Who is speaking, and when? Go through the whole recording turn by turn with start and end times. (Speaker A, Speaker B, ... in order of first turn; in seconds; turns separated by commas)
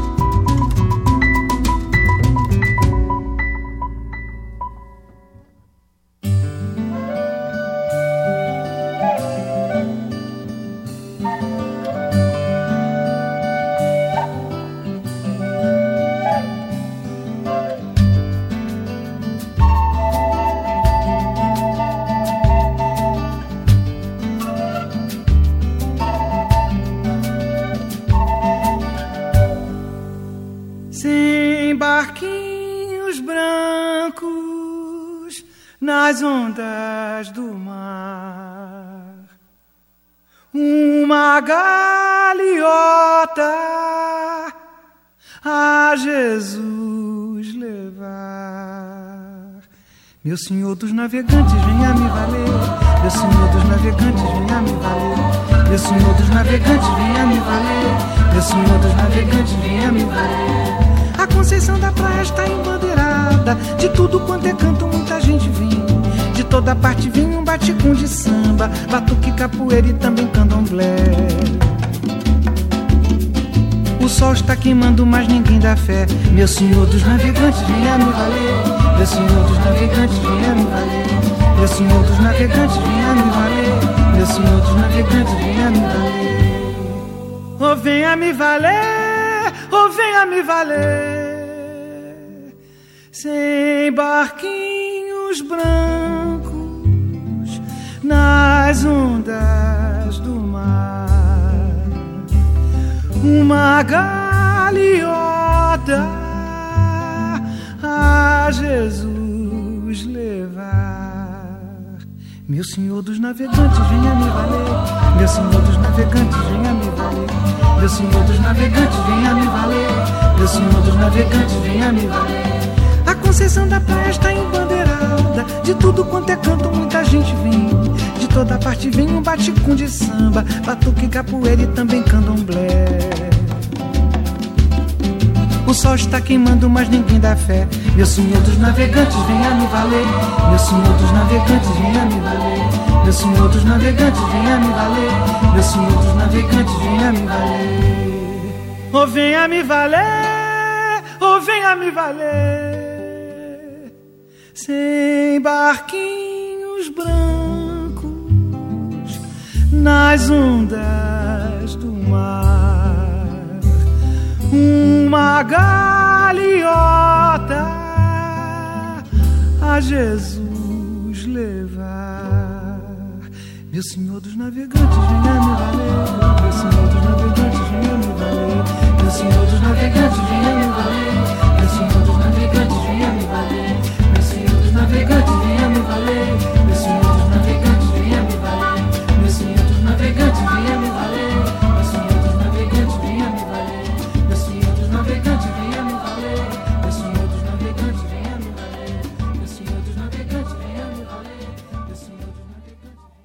Speaker A: 30.9-39.1, Speaker A: 40.5-44.5, Speaker A: 45.4-49.5, Speaker A: 50.2-71.8, Speaker A: 74.0-87.0, Speaker A: 87.6-92.0, Speaker A: 93.1-102.0, Speaker A: 103.2-122.5, Speaker A: 123.0-133.6, Speaker A: 135.6-153.5, Speaker A: 154.5-159.2, Speaker A: 159.7-163.6, Speaker A: 164.5-169.0, Speaker A: 169.6-202.6